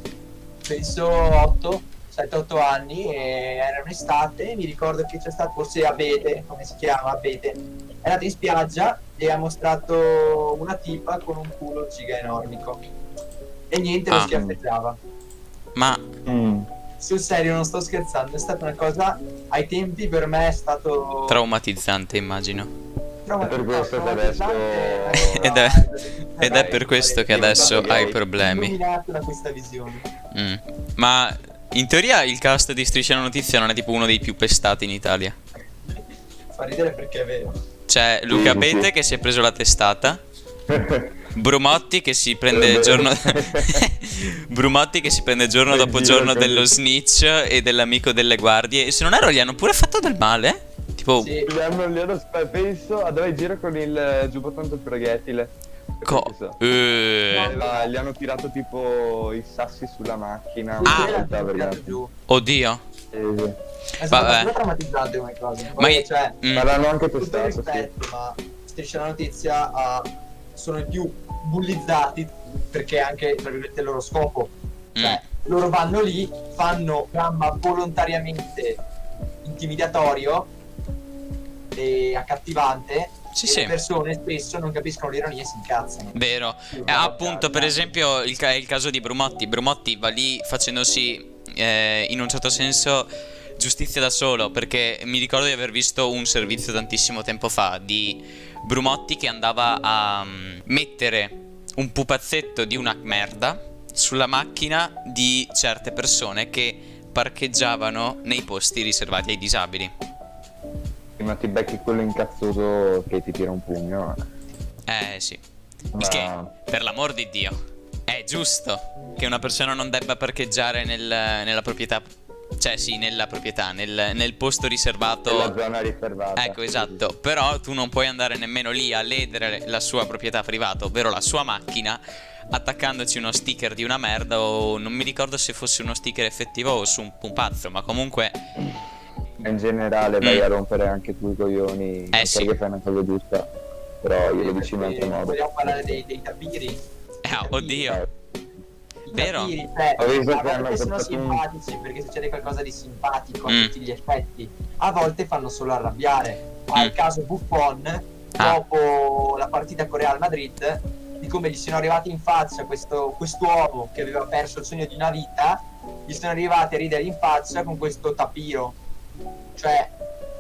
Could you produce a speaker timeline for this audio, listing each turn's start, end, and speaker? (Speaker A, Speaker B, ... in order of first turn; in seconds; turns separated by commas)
Speaker A: 0.7-12.8, Speaker A: 13.7-15.0, Speaker B: 14.1-14.4, Speaker C: 14.3-14.6, Speaker B: 15.8-16.0, Speaker C: 16.3-16.7, Speaker A: 17.0-21.4, Speaker B: 21.3-22.7, Speaker A: 23.3-30.1, Speaker C: 23.4-25.5, Speaker B: 25.1-25.9, Speaker B: 26.4-28.8, Speaker C: 26.4-28.2, Speaker B: 30.3-35.4, Speaker A: 36.5-37.6, Speaker B: 37.9-40.2, Speaker C: 38.3-38.9, Speaker C: 40.7-41.2, Speaker B: 41.4-51.3, Speaker C: 42.5-43.8, Speaker C: 45.7-46.7, Speaker A: 51.2-51.5, Speaker C: 51.5-56.6, Speaker B: 56.0-57.6, Speaker A: 57.3-57.9, Speaker C: 57.4-62.0, Speaker A: 60.8-62.1, Speaker B: 60.9-61.2, Speaker B: 62.3-62.8, Speaker C: 63.1-63.6, Speaker A: 64.0-66.4, Speaker B: 64.0-64.5, Speaker B: 65.8-66.8, Speaker C: 66.5-67.9, Speaker A: 67.2-78.8, Speaker B: 75.0-75.2, Speaker A: 79.4-80.5, Speaker A: 81.8-86.2, Speaker B: 83.3-83.8, Speaker B: 86.1-109.9, Speaker A: 86.7-87.8, Speaker C: 111.2-114.2, Speaker B: 114.9-115.4, Speaker C: 115.9-116.5, Speaker B: 116.0-117.5, Speaker B: 118.1-122.0, Speaker B: 122.6-125.5, Speaker C: 125.3-127.1, Speaker B: 126.4-138.4, Speaker C: 139.4-143.5, Speaker B: 142.1-142.5, Speaker C: 144.0-146.0, Speaker A: 144.2-147.9, Speaker B: 147.2-148.0, Speaker A: 149.1-168.8, Speaker B: 149.1-149.5, Speaker C: 150.0-151.4, Speaker B: 153.5-153.7, Speaker A: 169.6-169.9